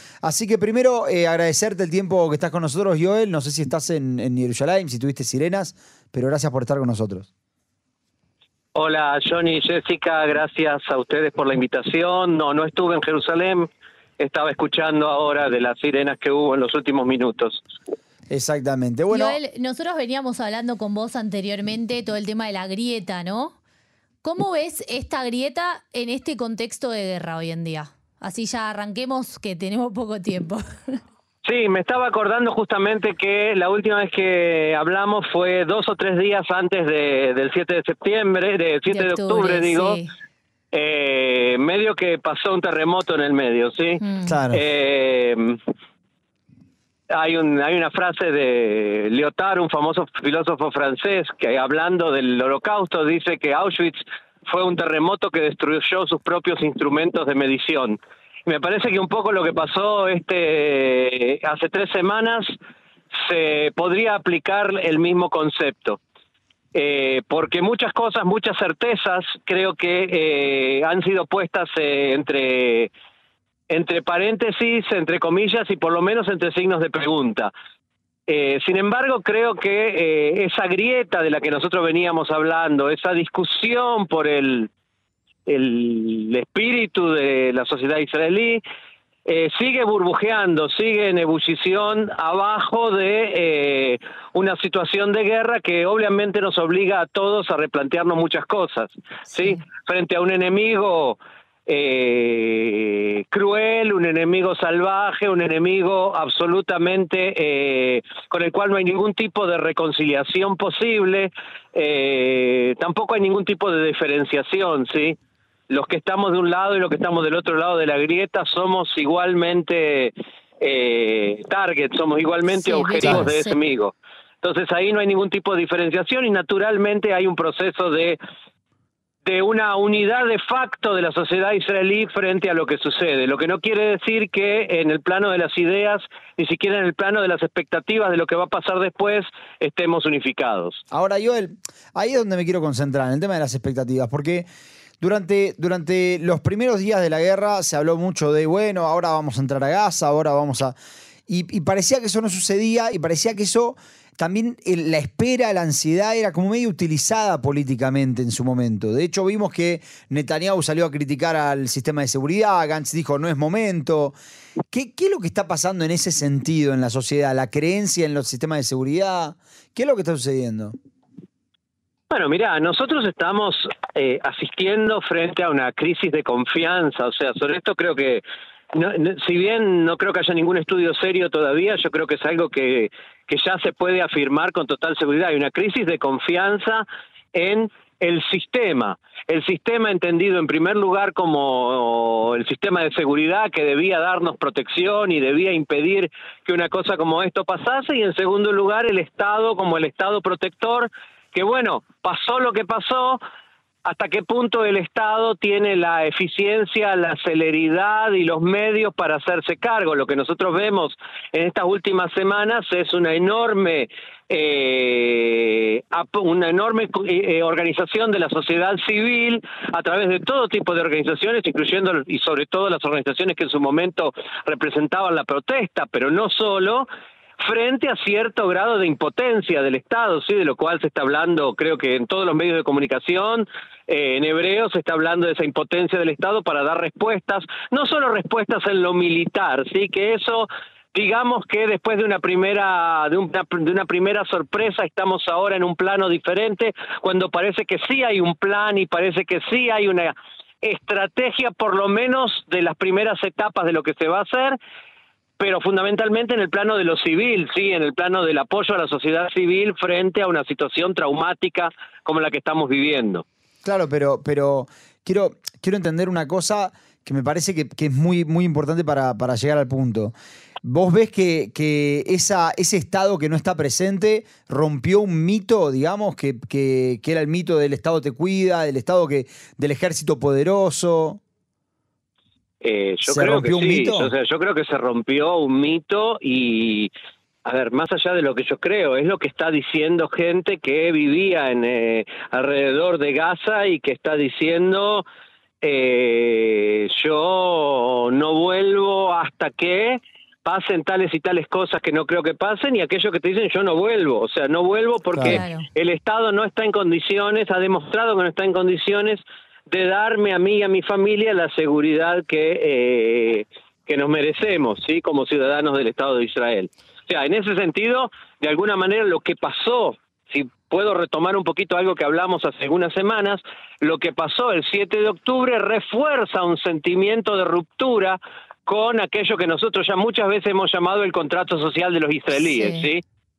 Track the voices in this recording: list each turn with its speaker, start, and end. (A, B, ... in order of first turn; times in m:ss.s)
0:00.2-0:07.3 A
0:08.7-0:13.7 B
0:14.2-0:17.6 B
0:18.3-0:19.4 A
0:19.1-0:23.6 C
0:24.2-0:31.0 C
0:31.4-0:40.0 B
0:38.9-0:40.1 C
0:40.7-0:45.6 B
0:44.0-0:44.4 C
0:44.2-0:44.6 A
0:47.1-1:02.5 B
1:03.1-1:06.0 B
1:06.7-1:12.9 B
1:13.7-1:17.5 B
1:18.3-1:24.7 B
1:25.5-1:28.6 B
1:29.2-1:55.2 B
1:39.3-1:39.6 C
1:55.7-2:08.2 B
2:02.4-2:03.6 C
2:09.2-2:20.8 B
2:20.9-2:24.4 A
2:25.0-2:30.7 A
2:31.3-2:44.2 A
2:44.7-2:50.7 A
2:52.1-3:23.2 B
3:23.8-3:46.9 B
3:47.4-4:14.6 B
4:15.4-4:23.2 B
4:23.6-4:41.2 A
4:42.6-4:46.9 B
4:43.0-4:44.1 A
4:47.4-4:55.0 B
4:55.6-5:33.0 B
5:05.1-5:05.4 A
5:05.2-5:05.7 C
5:32.3-5:32.9 C